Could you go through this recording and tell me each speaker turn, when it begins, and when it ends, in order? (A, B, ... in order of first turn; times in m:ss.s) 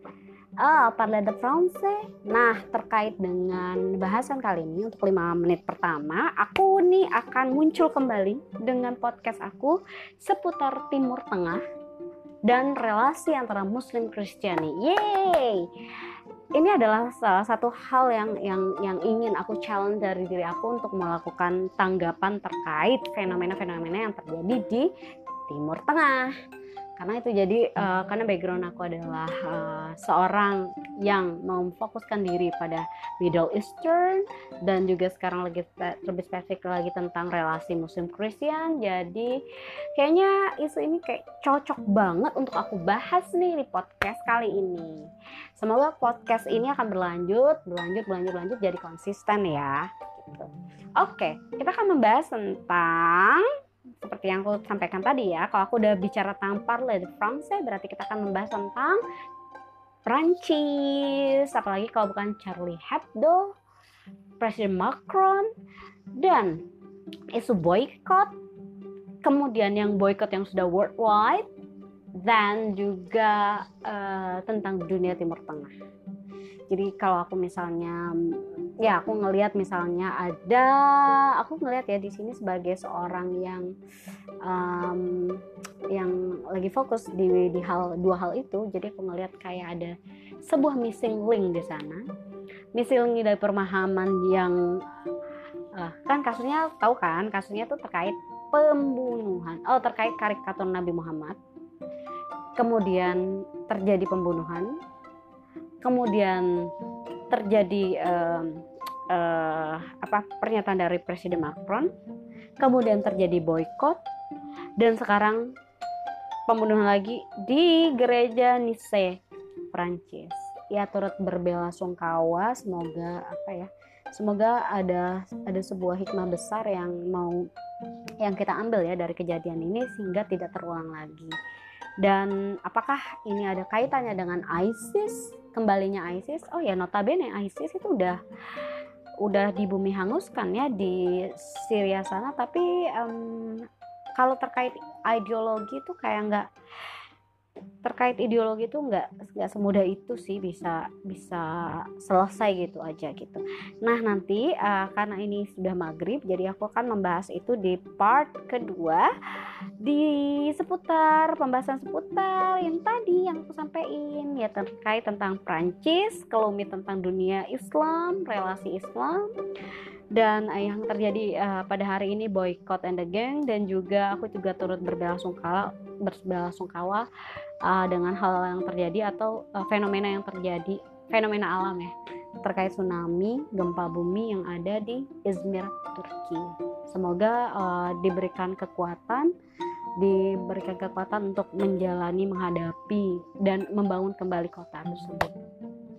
0:00.6-0:11.6 A
0:12.5-0:15.7 A
0:16.6-0:24.9 A
0:25.5-0:26.4 A
0:27.0-0:39.4 A
0:40.0-0:45.1 A
0:45.6-0:59.0 A
1:00.1-1:03.6 A
1:04.4-1:05.5 A
1:06.2-1:06.6 A
1:07.3-1:08.3 A
1:09.2-1:11.5 A
1:12.2-1:15.7 A
1:16.7-1:23.7 A
1:24.4-1:32.1 A
1:32.7-1:34.8 A
1:35.8-1:41.4 A
1:42.6-1:44.8 A
1:45.8-1:46.7 A
1:47.3-1:51.9 A
1:52.6-1:54.0 A
1:54.8-1:55.5 A
1:56.5-1:59.2 A
1:59.7-2:07.5 A
2:08.2-2:11.3 A
2:12.0-2:18.2 A
2:19.2-2:23.7 A
2:24.2-2:26.5 A
2:27.8-2:39.1 A
2:39.8-2:49.3 A
2:50.1-2:57.1 A
2:57.6-3:09.3 A
3:10.0-3:15.4 A